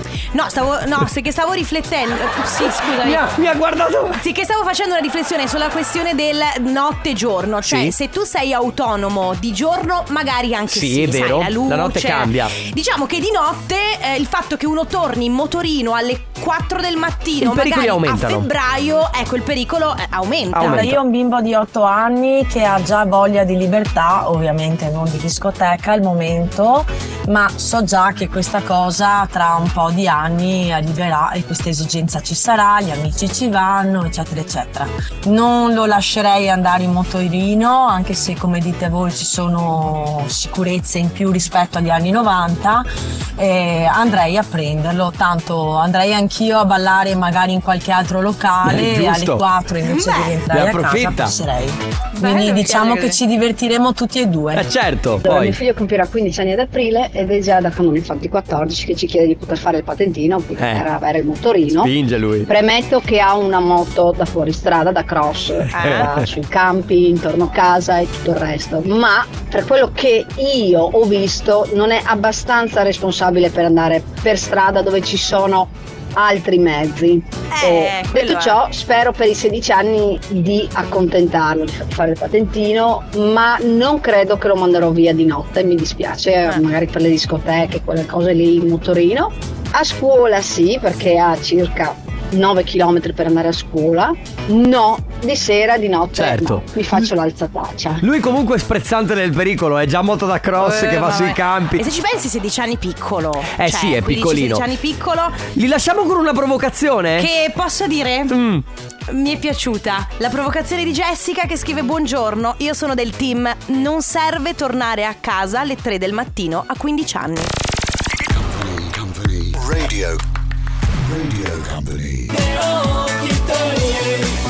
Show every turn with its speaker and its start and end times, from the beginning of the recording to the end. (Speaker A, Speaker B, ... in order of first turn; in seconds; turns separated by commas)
Speaker A: 0.3-3.2, Speaker B: 2.9-4.2, Speaker A: 4.2-21.0, Speaker B: 7.6-7.9, Speaker B: 10.7-12.5, Speaker B: 17.4-18.5, Speaker B: 20.5-21.0, Speaker C: 20.6-54.7, Speaker B: 48.7-49.4, Speaker A: 49.8-50.3, Speaker B: 50.5-51.3, Speaker A: 52.2-53.2, Speaker B: 54.5-55.5, Speaker D: 55.2-61.9, Speaker B: 60.6-60.9, Speaker B: 61.8-62.5, Speaker D: 62.5-98.0, Speaker A: 65.7-66.1, Speaker B: 65.8-66.2, Speaker A: 77.5-78.6, Speaker B: 96.2-96.7, Speaker B: 98.0-101.8, Speaker A: 100.6-105.4, Speaker B: 103.5-104.6, Speaker B: 105.5-107.3, Speaker A: 107.2-108.3, Speaker B: 108.3-108.6, Speaker A: 109.1-117.5, Speaker E: 118.3-120.2, Speaker E: 121.0-122.4